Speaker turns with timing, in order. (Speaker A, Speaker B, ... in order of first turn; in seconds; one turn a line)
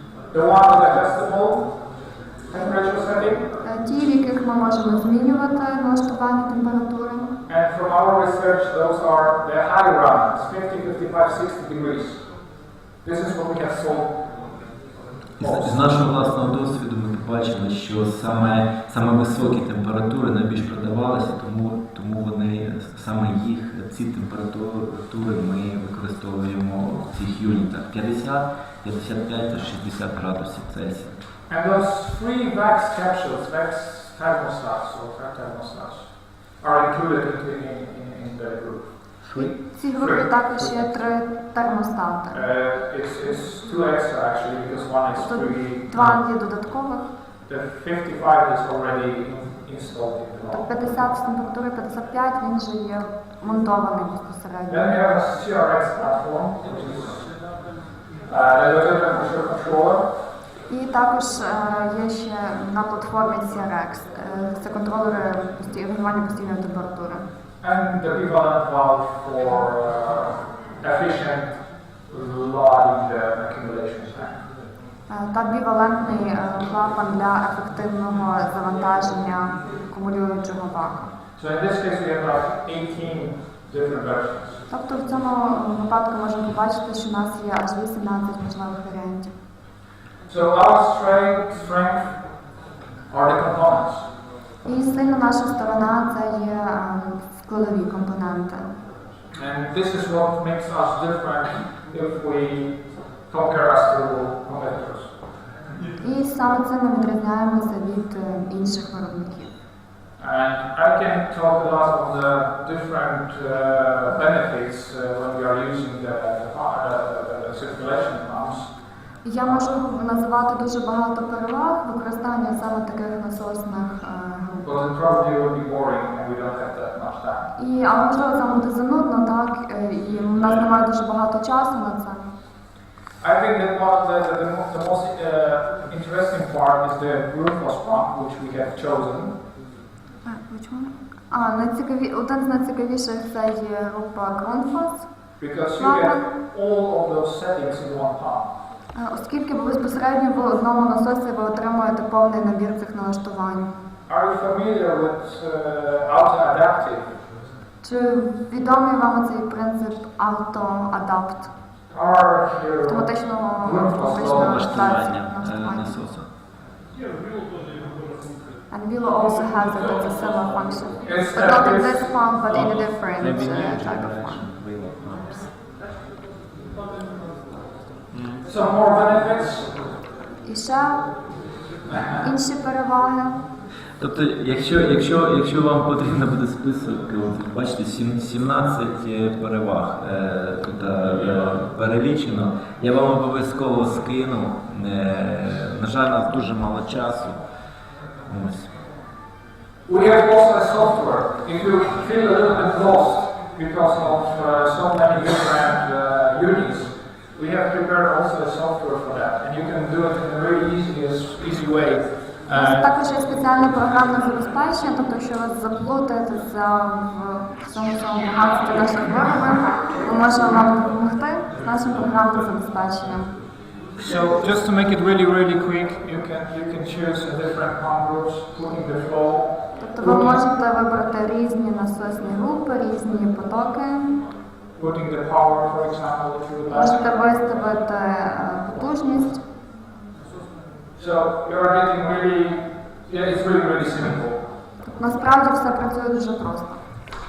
Speaker A: 0.3-3.5
Speaker B: 3.6-7.3
Speaker A: 7.5-14.2
Speaker C: 15.4-31.2
Speaker A: 15.4-15.9
Speaker A: 31.5-40.7
Speaker B: 39.6-42.4
Speaker A: 42.3-45.9
Speaker B: 45.1-47.1
Speaker A: 47.5-50.7
Speaker B: 50.5-54.9
Speaker A: 54.7-57.4
Speaker A: 58.3-60.1
Speaker B: 60.7-67.2
Speaker A: 67.6-74.4
Speaker B: 75.1-81.1
Speaker A: 81.4-84.6
Speaker B: 84.7-89.3
Speaker A: 90.3-92.5
Speaker A: 93.1-94.1
Speaker B: 94.6-98.7
Speaker A: 99.4-105.1
Speaker B: 106.0-109.5
Speaker A: 110.2-118.7
Speaker B: 119.2-124.7
Speaker A: 124.6-127.5
Speaker B: 127.5-132.3
Speaker A: 130.4-130.7
Speaker A: 133.2-139.3
Speaker B: 140.2-145.1
Speaker A: 145.4-148.5
Speaker B: 145.8-146.3
Speaker B: 148.9-153.7
Speaker A: 154.1-157.1
Speaker B: 157.8-161.5
Speaker A: 161.9-164.6
Speaker B: 162.8-166.0
Speaker C: 164.3-166.3
Speaker B: 168.7-174.4
Speaker A: 171.1-172.6
Speaker C: 172.8-175.5
Speaker C: 178.1-178.4
Speaker A: 178.4-179.8
Speaker B: 180.4-181.1
Speaker A: 181.9-182.2
Speaker B: 182.2-183.4
Speaker C: 184.0-197.4
Speaker C: 198.2-198.7
Speaker A: 199.9-212.9
Speaker B: 212.5-223.3
Speaker A: 224.0-230.4
Speaker B: 229.8-234.2
Speaker A: 234.8-237.2
Speaker B: 236.7-239.4
Speaker A: 241.0-244.4
Speaker B: 244.8-246.8